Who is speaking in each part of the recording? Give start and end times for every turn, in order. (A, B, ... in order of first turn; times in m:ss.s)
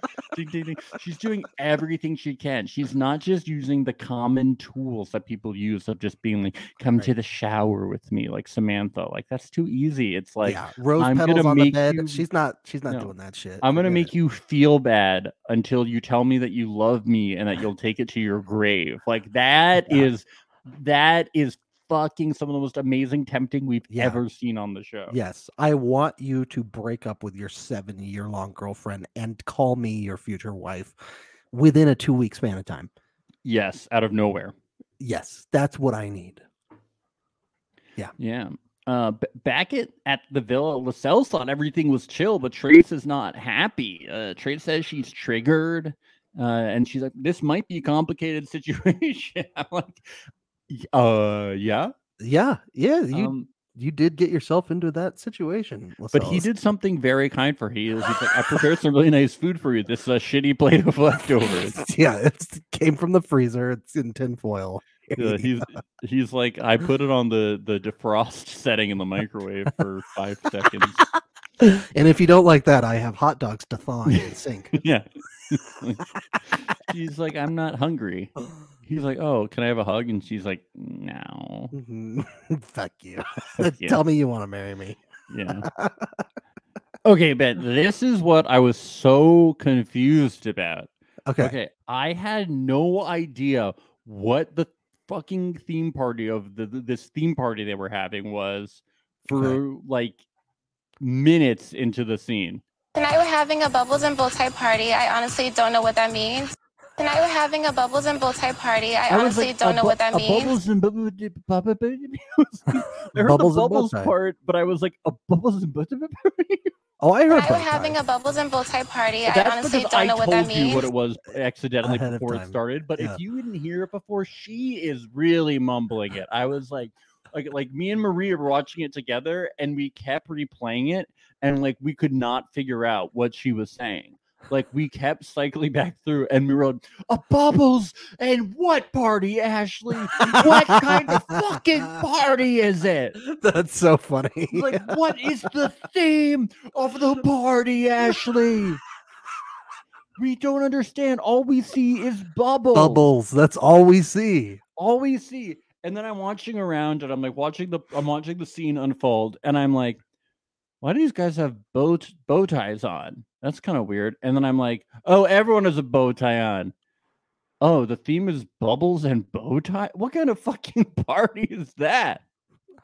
0:00.3-0:12.2 A
0:10.4-0:14.1 B
0:12.9-0:25.1 A
0:19.8-0:20.1 B
0:23.9-0:24.2 B
0:25.1-0:31.0 B
0:31.5-0:32.9 B
0:33.4-0:34.6 A
0:35.0-0:36.4 B
0:38.2-0:50.0 A
0:50.7-0:51.9 A
0:52.2-0:56.5 B
0:53.1-0:53.5 A
0:56.1-1:01.8 A
1:01.7-1:05.6 B
1:05.1-1:11.0 A
1:11.6-1:14.8 B
1:14.1-1:18.3 A
1:18.8-1:21.8 A
1:21.7-1:25.0 B
1:23.6-1:24.0 A
1:25.3-1:25.7 A
1:25.6-1:26.2 B
1:27.0-1:40.2 A
1:31.3-1:31.6 B
1:39.3-1:39.6 B
1:41.0-1:42.6 A
1:42.9-1:50.6 C
1:49.1-1:56.7 A
1:53.1-1:54.1 B
1:57.0-1:58.0 B
1:57.3-2:00.9 C
1:59.3-2:23.2 A
2:01.8-2:03.2 B
2:20.1-2:21.6 B
2:23.2-2:25.2 B
2:24.5-2:28.8 A
2:30.2-2:33.0 A
2:32.7-2:34.6 B
2:34.8-2:40.0 A
2:40.8-2:46.7 A
2:47.6-2:52.2 A